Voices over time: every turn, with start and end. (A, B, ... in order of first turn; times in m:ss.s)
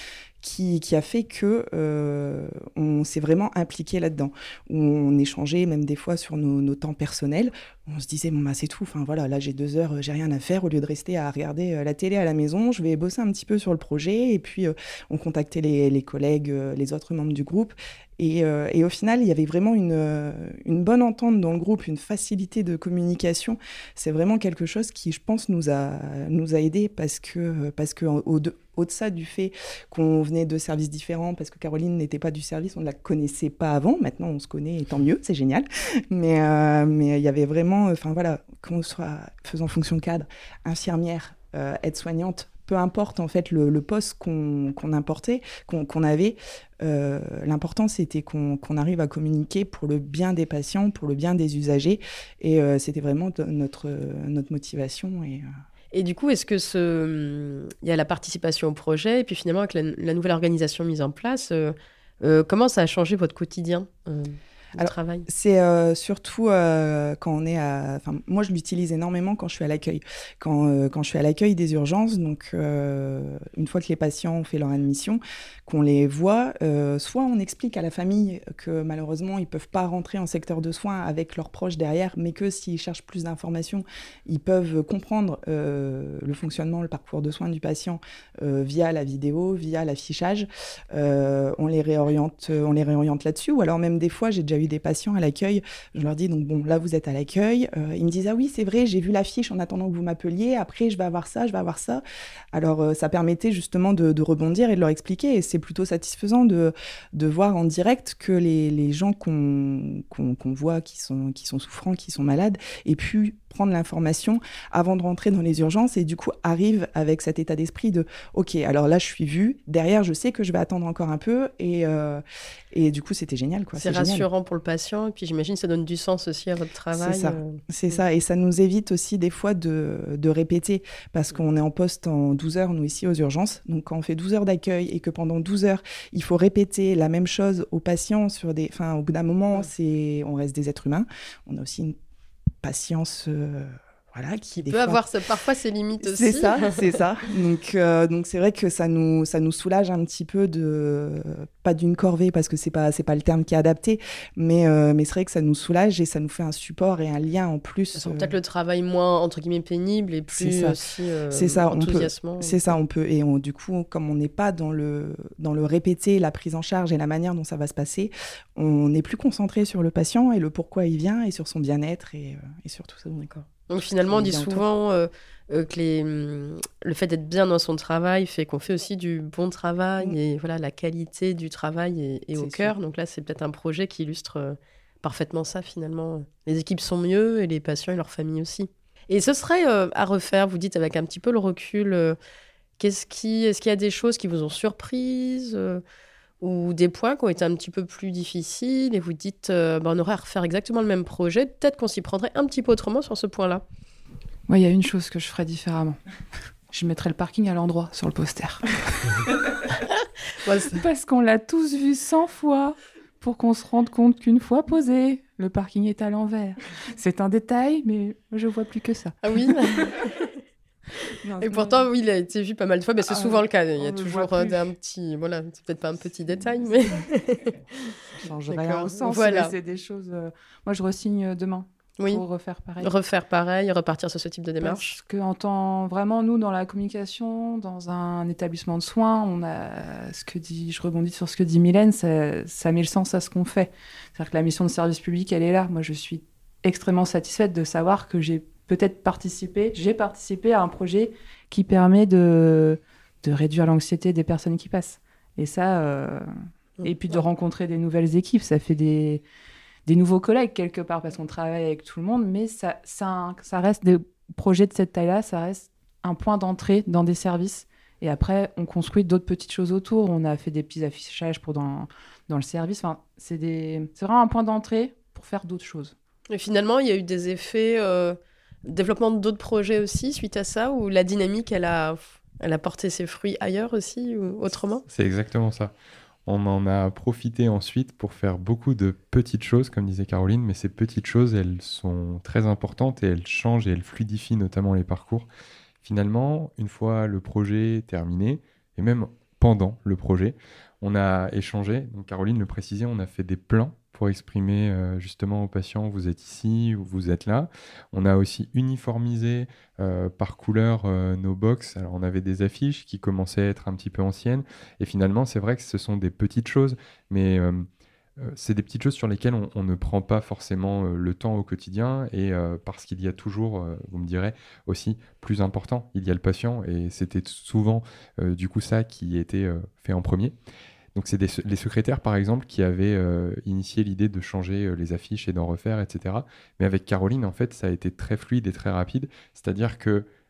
0:00.4-0:55.4 A
0:55.9-1:05.2 B
1:04.8-1:42.0 A
1:42.5-2:04.3 A
2:03.8-2:07.6 B
2:06.9-2:21.9 A
2:22.6-2:25.0 A
2:24.5-2:26.9 B
2:26.0-2:38.3 A
2:37.9-2:42.7 B
2:40.3-2:40.8 A
2:41.3-2:53.3 A
2:53.4-3:12.2 B
2:54.0-2:54.6 A
3:02.3-3:02.7 A
3:12.8-3:15.8 B
3:16.4-3:23.6 B
3:24.5-3:26.0 C
3:26.7-3:29.2 C
3:30.4-3:30.8 B
3:30.7-3:39.8 C
3:39.2-3:40.3 B
3:41.2-3:41.9 C
3:41.4-3:47.9 B
3:43.0-3:44.6 C
3:48.2-3:52.9 C
3:48.5-3:49.5 B
3:52.0-3:52.2 B
3:52.8-3:55.0 B
3:54.6-4:16.3 C
4:16.8-4:19.2 C
4:19.8-4:35.9 C
4:36.3-4:44.8 B
4:44.9-4:45.7 D
4:46.2-4:55.3 D
4:55.8-5:17.7 D
5:18.2-5:30.3 D
5:30.9-5:40.0 D